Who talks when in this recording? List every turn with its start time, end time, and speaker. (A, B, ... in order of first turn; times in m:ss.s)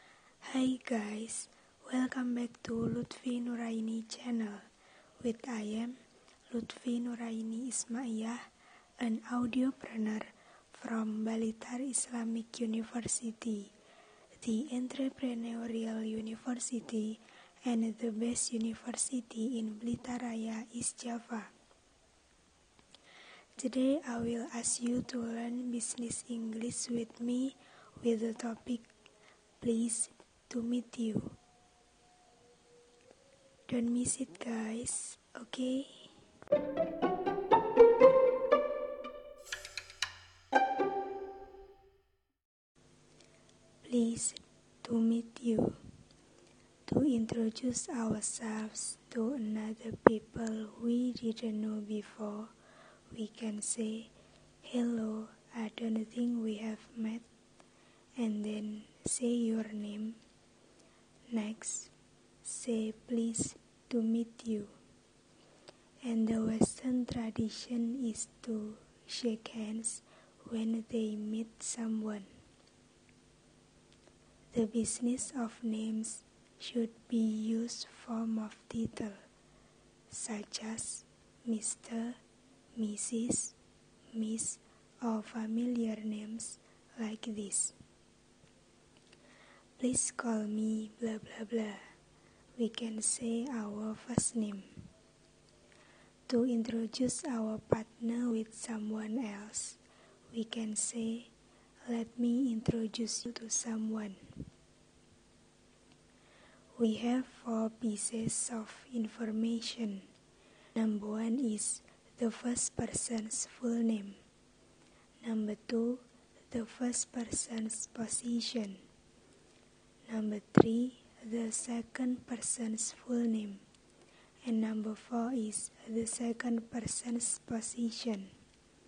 0:00.4-0:04.6 A
0:05.2-0:05.9 A
0:06.5-0:08.4 A
0:09.0-0:13.7 A
0:14.4-0:21.5 A
0:23.6-0:28.9 A
0:29.6-0:31.4 A
0:33.7-0:36.1 A
0:43.8-0:45.8 A
0:46.9-0:52.5 A
0:53.1-0:54.1 A
0:54.6-0:57.2 A
0:58.2-1:00.2 A
1:01.3-1:01.9 A
1:02.4-1:04.7 A
1:06.0-1:12.3 A
1:14.5-1:19.2 A
1:20.1-1:22.2 A
1:22.8-1:23.5 A
1:24.1-1:27.7 A
1:29.8-1:31.8 A
1:32.6-1:34.8 A
1:36.3-1:39.8 A
1:40.3-1:41.3 A
1:41.9-1:44.4 A
1:46.8-1:50.1 A
1:50.7-1:54.2 A
1:55.2-1:58.8 A
2:00.1-2:03.6 A
2:04.4-2:08.3 A